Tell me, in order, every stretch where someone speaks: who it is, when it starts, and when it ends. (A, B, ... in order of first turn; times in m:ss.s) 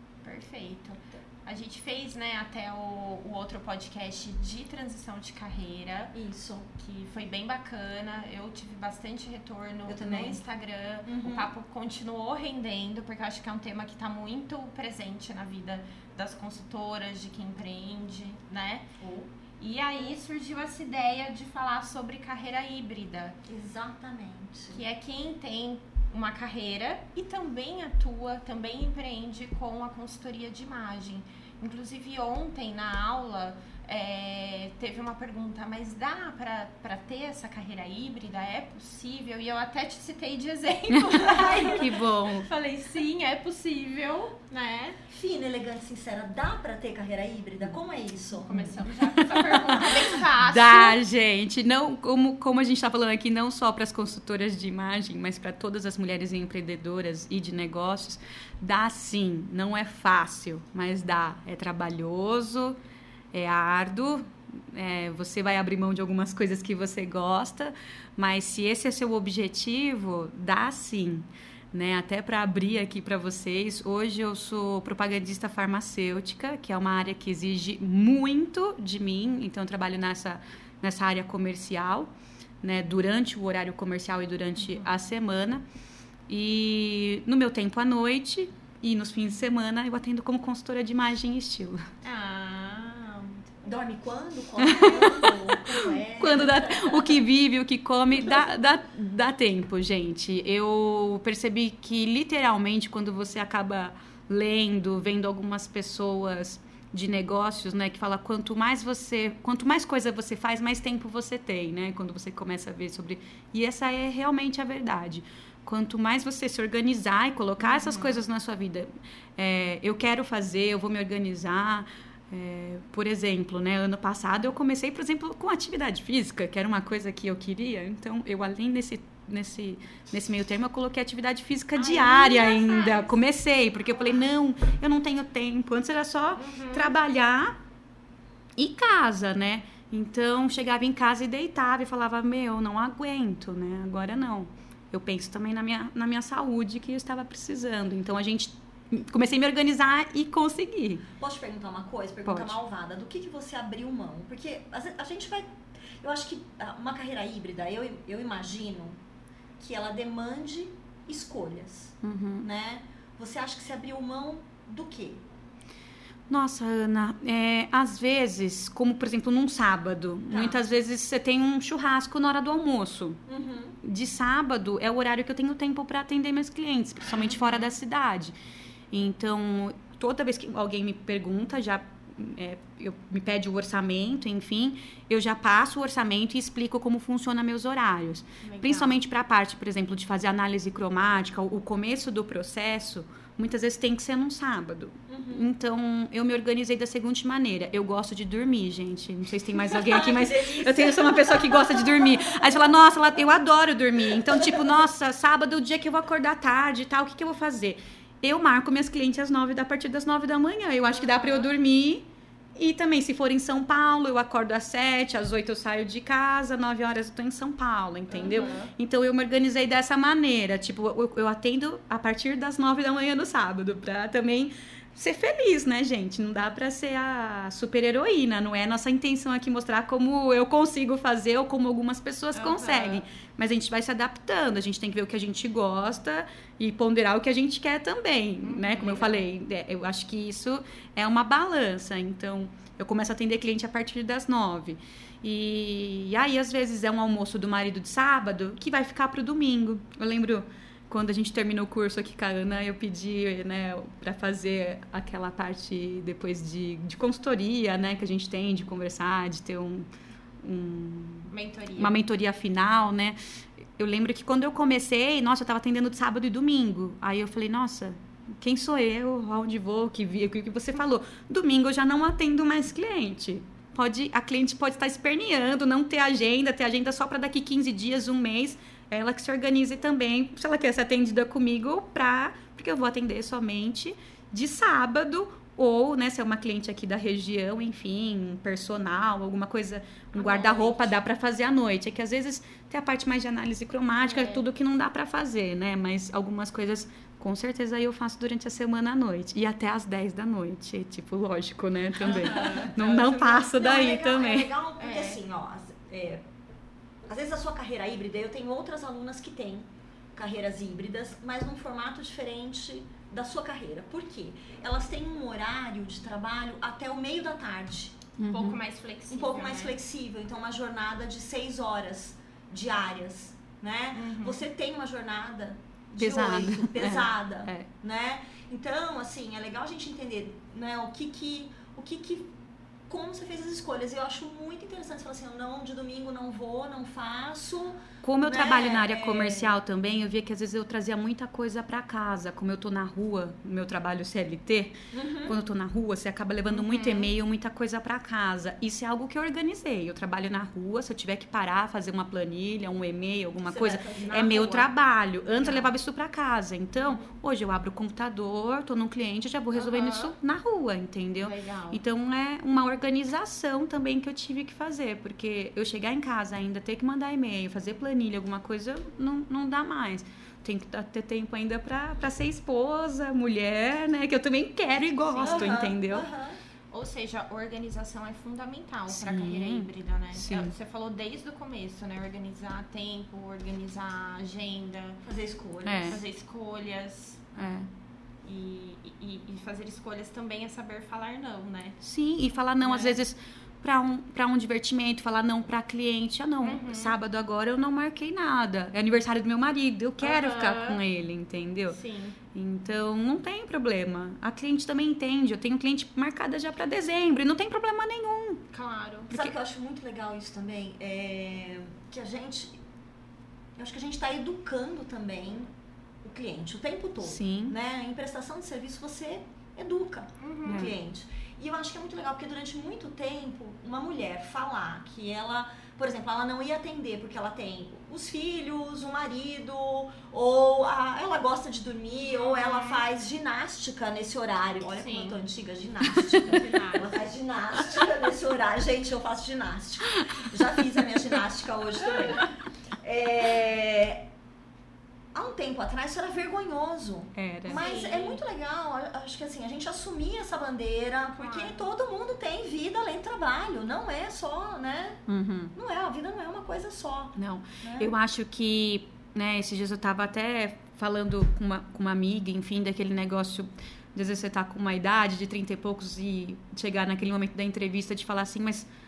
0:00.2-0:06.1 A
0:06.1-0:06.7 B
0:06.7-0:18.9 A
0:09.9-0:10.4 B
0:11.0-0:11.5 B
0:19.0-0:19.3 B
0:19.6-0:23.4 A
0:23.5-0:24.8 B
0:24.7-0:45.0 A
0:41.2-0:41.9 B
0:41.6-0:42.5 C
0:45.1-0:48.8 B
0:48.4-0:51.0 A
0:49.2-1:02.8 C
1:03.3-1:25.6 C
1:26.3-1:31.9 C
1:32.0-1:33.8 A
1:33.7-1:37.1 B
1:34.6-2:17.6 C
1:57.6-1:58.2 A
2:11.8-2:13.1 A
2:16.4-2:17.0 A
2:18.6-2:31.1 C
2:31.2-2:35.5 B
2:32.3-2:32.6 C
2:36.0-2:39.0 B
2:39.6-2:45.2 B
2:42.0-2:42.5 C
2:46.3-2:53.2 C
2:50.3-2:50.6 B
2:53.3-2:53.8 B
2:53.8-2:58.4 C
2:58.9-4:19.9 C
3:08.4-3:09.0 A
3:15.1-3:15.5 B
3:19.5-3:22.8 B
3:24.1-3:24.6 B
3:31.0-3:31.5 A
3:38.1-3:38.7 A
3:52.3-3:53.0 A
3:58.4-3:59.2 A
4:20.4-4:23.2 C
4:21.3-4:22.0 A
4:23.8-5:04.5 C
4:50.2-4:50.8 B
4:50.2-4:50.9 A
4:54.0-4:54.4 A
5:02.0-5:02.7 A
5:02.2-5:06.2 B
5:04.8-5:05.2 A
5:07.1-5:18.1 B
5:18.2-5:18.6 C
5:18.3-5:19.8 A
5:19.1-5:32.3 B
5:24.0-5:24.4 A
5:26.0-5:27.7 C
5:32.9-5:39.6 B
5:38.0-6:16.1 C
5:44.9-5:45.4 B
5:46.5-5:47.1 A
5:53.4-5:54.6 B
5:54.2-5:54.6 A
5:55.4-5:55.7 A
5:56.8-5:57.1 A
5:59.5-6:00.1 A
6:01.2-6:01.8 A
6:15.1-6:15.6 A
6:15.2-6:16.4 B
6:16.7-6:25.0 A
6:18.9-6:20.5 C
6:25.0-6:26.0 B
6:25.6-6:26.0 C
6:25.8-6:27.3 A
6:27.4-6:27.7 C
6:28.2-6:31.8 A
6:31.8-6:41.8 C
6:32.6-6:33.0 A
6:36.4-6:37.0 A
6:40.0-6:40.8 A
6:41.7-6:42.2 A
6:42.3-6:48.4 C
6:48.5-6:49.1 A
6:49.1-6:49.4 C
6:49.1-6:52.6 B
6:53.6-6:55.5 B
6:56.0-7:24.1 B
6:57.0-6:57.6 C
7:00.2-7:00.7 A
7:00.5-7:00.7 C
7:12.1-7:12.8 A
7:14.8-7:15.2 A
7:16.2-7:16.9 A
7:25.1-7:35.0 B
7:27.2-7:27.6 C
7:27.5-7:28.2 A
7:31.2-7:31.6 A
7:35.1-7:35.5 C
7:35.6-7:37.9 B
7:37.2-7:48.7 C